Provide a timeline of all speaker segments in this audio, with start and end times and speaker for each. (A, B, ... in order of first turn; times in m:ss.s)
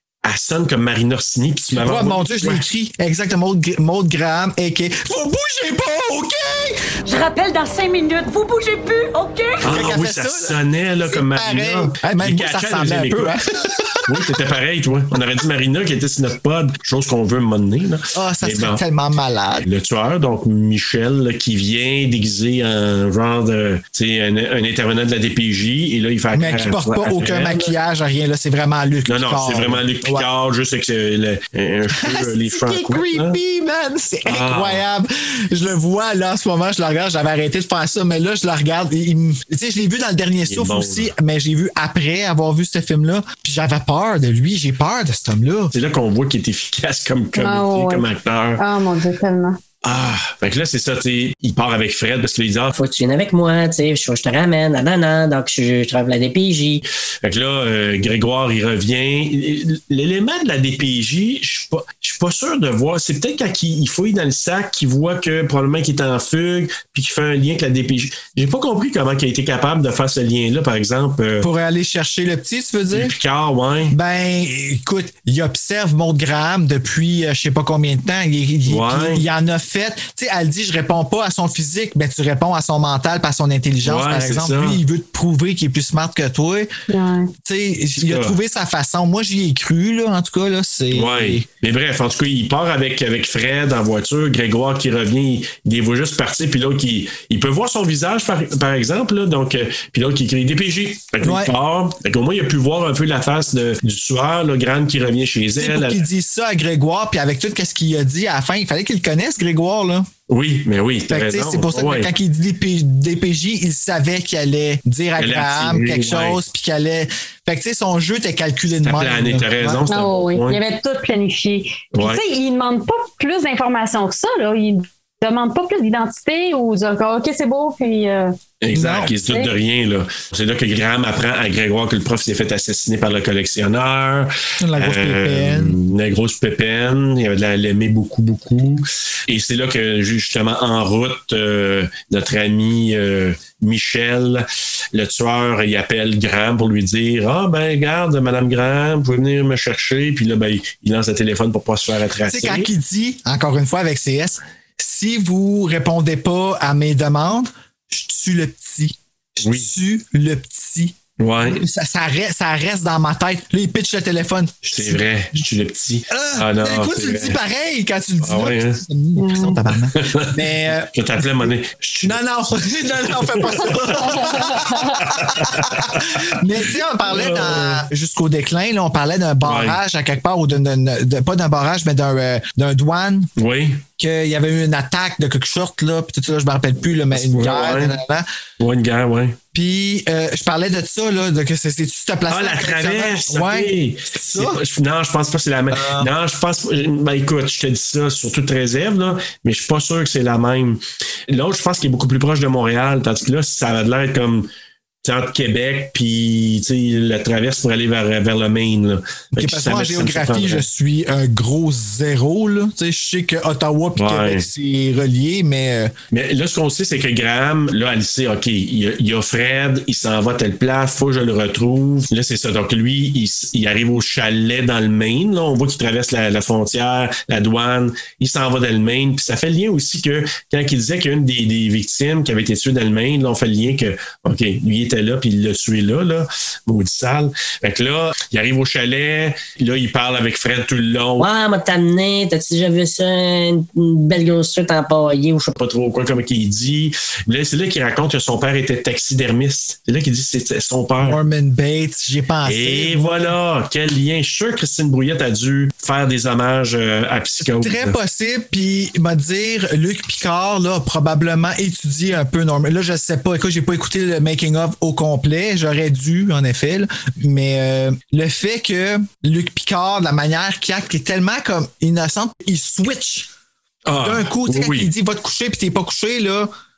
0:00.2-0:02.6 A
0:01.7-0:06.9 B
0:07.0-0:09.6 C
0:09.6-0:13.3 A
0:09.6-0:14.3 B
0:14.0-0:18.8 A
0:18.1-0:19.7 B
0:19.6-0:27.7 A
0:26.3-0:30.3 B
0:29.1-0:33.4 A
0:31.9-0:45.7 B
0:34.2-0:34.8 A
0:40.5-0:41.1 A
0:45.7-0:48.6 A
0:47.3-0:48.0 D
0:48.6-0:49.6 D
0:49.8-0:52.7 A
0:57.2-1:11.5 A
1:11.4-1:13.1 B
1:12.9-1:13.9 A
1:13.9-1:26.7 B
1:18.7-1:19.2 A
1:23.8-1:24.8 A
1:26.9-1:27.3 D
1:27.4-1:31.4 B
1:28.0-1:28.3 A
1:30.9-1:46.0 A
1:41.2-1:41.5 B
1:45.6-1:50.1 B
1:50.3-1:52.1 A
1:51.1-1:59.8 B
1:55.2-1:56.4 A
1:58.8-2:00.6 A
1:59.9-2:08.3 D
2:01.9-2:02.2 A
2:08.6-2:32.7 A
2:08.7-2:09.1 B
2:14.6-2:15.8 B
2:32.3-2:45.4 B
2:39.4-2:39.7 A
2:41.2-2:41.6 A
2:44.6-2:47.4 A
2:46.1-2:51.5 B
2:48.2-2:48.8 A
2:49.2-2:49.6 D
2:49.9-2:52.2 A
2:52.0-3:03.3 B
2:53.0-2:56.3 A
2:53.9-2:55.0 D
2:57.0-2:57.8 A
2:59.4-2:59.8 A
3:03.4-3:03.8 A
3:04.0-3:08.2 B
3:07.1-3:08.0 A
3:08.6-3:09.4 A
3:09.5-3:14.6 B
3:12.3-3:24.5 A
3:15.7-3:16.1 B
3:25.0-3:30.7 A
3:29.3-3:35.9 B
3:34.0-3:34.5 A
3:36.1-4:01.3 A
4:01.2-4:05.5 E
4:05.5-4:11.2 A
4:11.0-4:13.4 B
4:12.4-4:18.0 A
4:17.4-4:33.3 B
4:33.8-4:34.9 A
4:34.0-4:36.5 B